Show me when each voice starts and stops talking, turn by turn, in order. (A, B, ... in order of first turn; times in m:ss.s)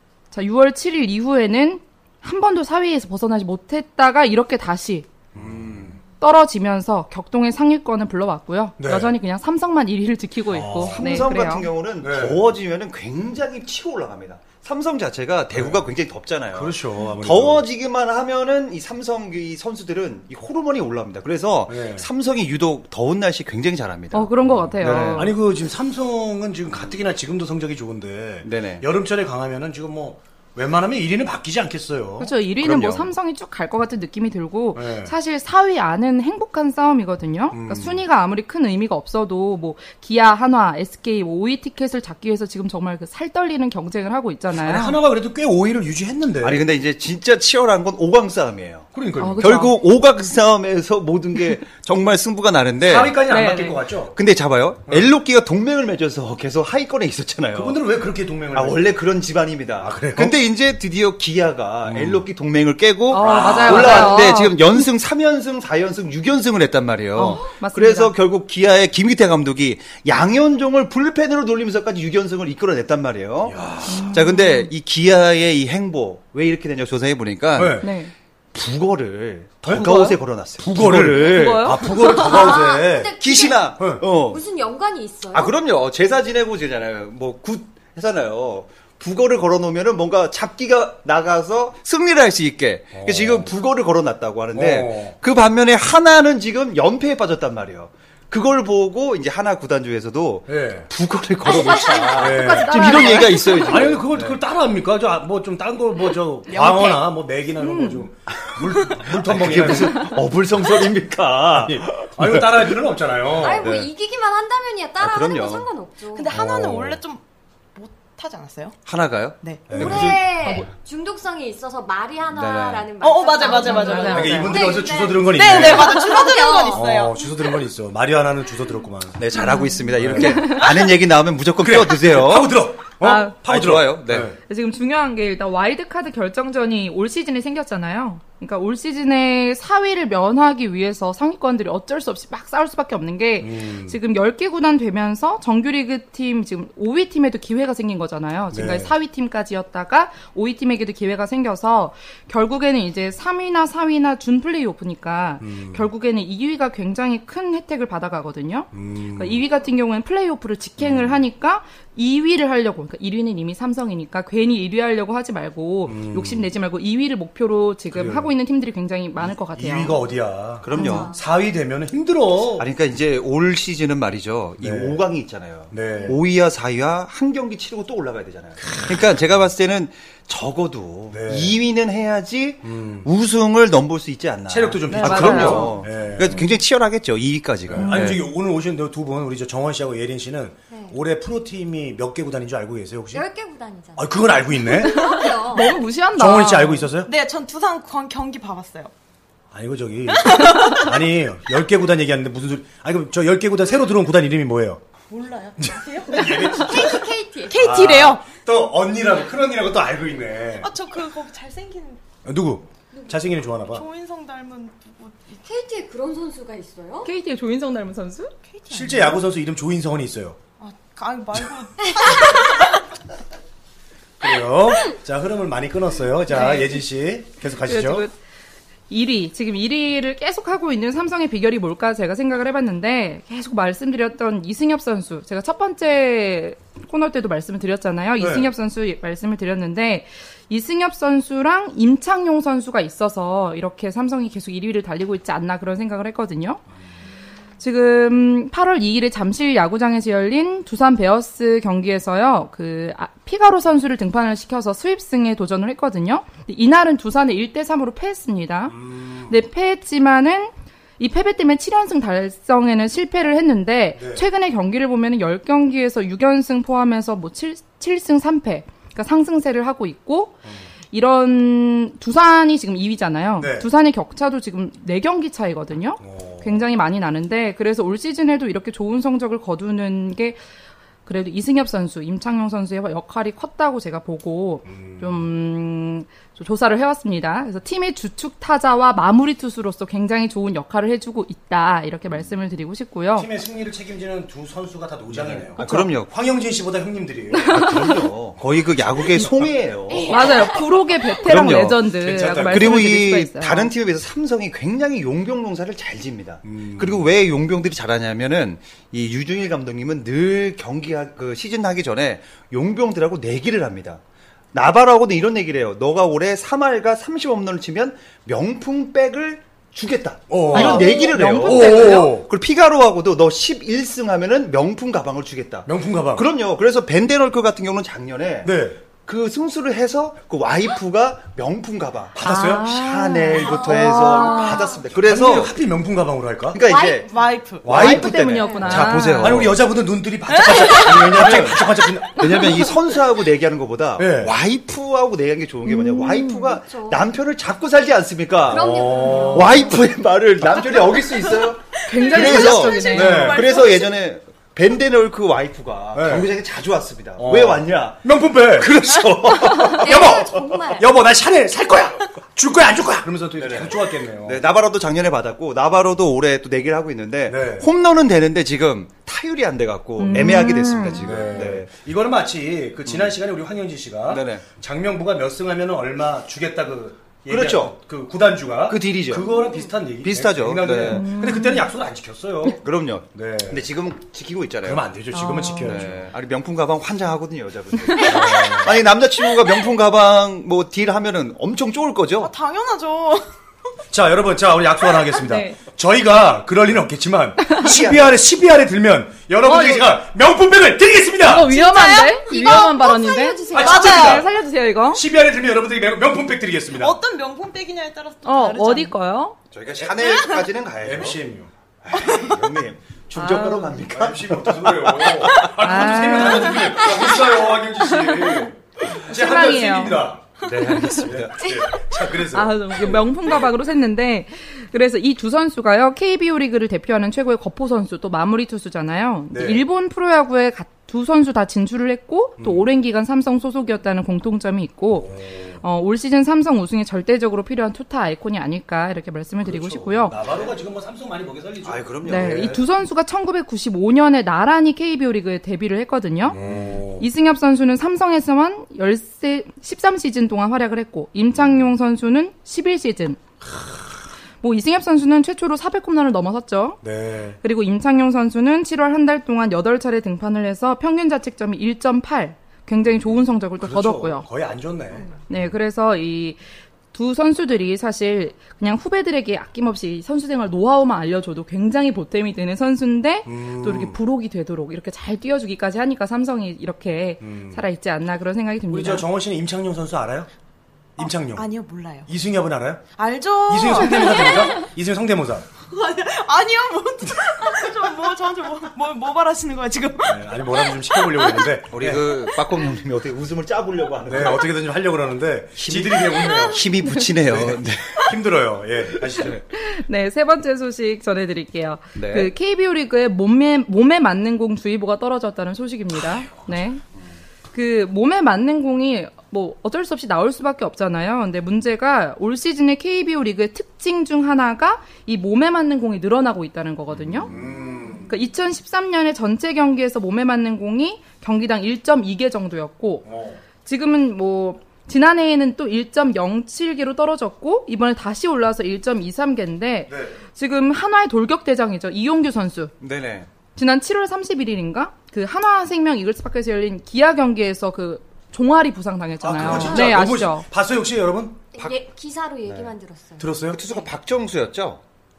0:00.3-0:05.1 A
0:05.3-0:06.0 B
0:05.4-0:05.9 C
0:06.2-0:11.7 A
0:08.8-0:09.2 B
0:10.5-0:11.3 B
0:10.6-0:25.3 C
0:12.0-0:12.5 B
0:15.5-0:15.9 B
0:16.5-0:17.6 B
0:21.7-0:22.1 B
0:24.1-0:25.4 A
0:24.5-0:32.3 B
0:28.4-0:28.9 C
0:32.2-0:45.0 A
0:32.6-0:33.1 C
0:34.7-0:35.2 B
0:37.5-0:38.0 B
0:44.5-0:46.6 B
0:46.4-0:53.2 C
0:48.9-0:49.5 B
0:49.2-0:49.8 A
0:52.8-0:54.2 B
0:53.3-0:53.8 A
0:54.1-0:57.8 C
0:54.9-0:55.1 B
0:57.5-0:59.0 B
0:58.5-1:18.0 C
0:59.8-1:00.4 B
1:01.8-1:02.2 B
1:03.1-1:04.9 A
1:03.2-1:04.4 B
1:07.2-1:08.1 A
1:13.4-1:14.3 B
1:13.8-1:14.7 A
1:17.5-1:17.9 B
1:17.8-1:18.1 A
1:18.5-1:22.6 C
1:19.6-1:19.9 B
1:19.7-1:20.2 A
1:20.6-1:23.1 B
1:21.2-1:21.9 A
1:21.9-1:23.7 D
1:23.2-1:24.4 C
1:23.8-1:24.1 B
1:24.3-1:25.5 D
1:25.3-1:44.4 C
1:32.9-1:33.5 B
1:34.5-1:35.2 B
1:40.5-1:40.9 B
1:42.1-1:43.9 A
1:42.2-1:43.0 B
1:43.7-1:50.2 B
1:46.5-1:47.1 E
1:47.6-1:48.1 A
1:48.4-1:52.8 C
1:51.5-1:53.9 B
1:53.4-1:56.4 D
1:53.6-1:53.9 C
1:55.0-1:55.7 C
1:56.1-1:57.2 E
1:56.3-1:57.0 B
1:57.8-1:58.8 E
1:58.9-2:00.7 C
1:59.4-1:59.7 E
1:59.7-2:00.7 B
1:59.7-2:06.8 D
2:02.3-2:02.9 C
2:03.0-2:07.6 E
2:03.5-2:04.6 A
2:04.1-2:06.1 B
2:06.7-2:09.2 B
2:09.2-2:12.7 C
2:09.3-2:10.7 A
2:09.9-2:10.9 B
2:11.6-2:14.4 B
2:13.0-2:13.4 A
2:13.5-2:14.4 C
2:14.4-2:50.0 A
2:23.4-2:24.0 B
2:28.5-2:28.9 B
2:35.4-2:35.9 B
2:38.7-2:39.4 B
2:40.8-2:41.2 B
2:45.9-2:46.5 B
2:47.9-2:48.3 B
2:49.3-2:52.7 B
2:50.6-2:51.2 C
2:50.7-2:51.1 A
2:50.8-2:51.2 D
2:52.6-3:08.2 C
2:54.6-2:55.0 B
2:55.7-2:56.2 B
2:58.6-2:59.0 B
3:01.1-3:01.6 B
3:02.6-3:03.1 B
3:04.5-3:06.5 B
3:04.9-3:05.8 A
3:07.7-3:13.3 B
3:07.8-3:08.1 A
3:10.7-3:11.0 D
3:13.1-3:15.8 D
3:14.0-3:15.2 B
3:14.9-3:16.9 A
3:16.2-3:17.1 B
3:17.0-3:18.9 E
3:19.5-3:24.8 B
3:20.1-3:20.9 E
3:25.1-3:28.3 E
3:25.6-3:27.0 B
3:26.6-3:27.6 D
3:27.6-3:30.7 B
3:30.6-3:32.0 E
3:32.2-3:33.9 B
3:33.6-3:35.4 E
3:35.4-3:37.1 D
3:37.0-3:38.3 A
3:38.5-3:39.2 E
3:38.7-3:40.4 B
3:40.6-3:42.6 E
3:44.2-3:48.1 B
3:46.3-3:46.8 A
3:47.6-3:48.1 A
3:48.9-4:06.6 A
3:58.2-3:58.5 B
4:07.6-4:40.4 A
4:18.7-4:19.4 B
4:24.0-4:24.3 B
4:33.4-4:33.7 B
4:36.0-4:36.6 B
4:41.1-4:53.3 A
4:44.7-4:45.3 B
4:53.2-4:57.9 B
4:55.1-4:56.1 C
4:55.6-4:55.9 A
4:57.5-5:00.4 C
4:59.0-5:00.0 B
5:00.1-5:03.7 A
5:01.2-5:01.9 C
5:02.0-5:02.9 B
5:02.5-5:14.0 C
5:06.4-5:07.1 B
5:14.5-5:35.6 C
5:20.3-5:22.3 B
5:20.5-5:22.1 A
5:25.7-5:26.3 B
5:28.4-5:28.8 B
5:32.2-5:32.8 B
5:32.2-5:34.7 A
5:33.4-5:34.6 D
5:34.9-5:36.6 B
5:36.5-5:39.6 C
5:36.7-5:37.8 E
5:36.7-5:37.0 D
5:37.6-5:42.5 B
5:37.7-5:39.4 A
5:40.3-5:41.2 E
5:40.6-6:00.4 C
5:44.0-5:44.4 B
5:45.7-5:46.6 A
5:46.5-5:47.0 D
5:48.5-5:49.8 D
5:48.5-5:49.7 B
5:51.9-5:53.5 A
5:52.0-5:53.3 E
5:52.1-5:53.9 D
5:52.9-5:53.5 B
5:55.9-5:56.3 B
5:57.2-5:58.8 B
5:59.6-6:04.5 B
5:59.6-6:00.9 D
6:03.4-6:11.7 C
6:07.3-6:07.7 B
6:10.0-6:11.3 A
6:11.0-6:22.6 B
6:12.9-6:13.1 C
6:14.1-6:14.4 C
6:17.3-6:17.8 C
6:18.7-6:19.3 C
6:20.0-6:21.1 C
6:20.8-6:21.7 A
6:22.6-6:24.9 C
6:23.1-6:23.7 B
6:24.6-6:26.1 B
6:25.1-6:25.8 A
6:25.6-6:32.3 C
6:28.0-6:28.8 B
6:32.2-6:33.3 E
6:33.9-6:41.5 B
6:35.2-6:35.6 A
6:37.6-6:38.2 C
6:39.4-6:40.0 A
6:41.2-6:45.0 A
6:41.5-6:42.7 E
6:42.0-6:44.2 D
6:43.5-6:44.3 E
6:43.5-6:44.3 B
6:44.9-6:47.0 B
6:46.8-6:49.0 E
6:48.2-6:49.4 A
6:49.5-6:51.2 C
6:49.8-6:50.2 B
6:50.8-6:51.5 B
6:51.8-6:55.5 C
6:52.0-6:52.3 E
6:53.1-6:53.8 A
6:53.9-7:03.4 B
6:55.6-6:56.9 A
6:57.8-6:58.5 A
6:59.1-7:00.0 A
7:00.4-7:01.6 C
7:02.3-7:20.2 A
7:09.3-7:09.6 B
7:12.4-7:12.7 B
7:14.9-7:15.6 B
7:19.4-7:22.6 B
7:21.6-7:22.6 C
7:22.0-7:26.4 A
7:26.3-7:27.1 B
7:27.0-7:33.2 A
7:33.5-7:33.8 B
7:34.4-7:36.8 A
7:36.8-7:37.4 B
7:37.4-7:44.3 A
7:43.6-7:45.1 B
7:45.3-7:46.4 A
7:46.9-7:59.1 A
7:53.3-7:54.0 B
7:57.2-7:57.7 B
7:58.7-8:00.3 B
8:01.0-8:01.5 B
8:01.0-8:02.1 E
8:02.1-8:02.8 B
8:03.0-8:04.6 E
8:03.5-8:05.5 B
8:05.6-8:11.5 E
8:10.0-8:12.2 B
8:11.7-8:14.5 C
8:14.1-8:16.7 B
8:15.6-8:18.1 C
8:17.2-8:19.4 B
8:19.1-8:19.4 C
8:19.5-8:26.8 A
8:22.0-8:22.3 C
8:27.5-8:37.3 A
8:36.9-8:37.5 C
8:37.2-8:38.1 B
8:38.1-8:43.1 A
8:43.0-8:43.4 B
8:43.6-8:52.7 A
8:49.9-8:50.2 B
8:52.8-8:53.3 C
8:53.6-9:00.5 A
8:59.2-9:01.4 B
8:59.4-8:59.8 C
9:01.5-9:03.9 D
9:02.5-9:02.7 C
9:03.2-9:03.6 B
9:03.5-9:04.8 C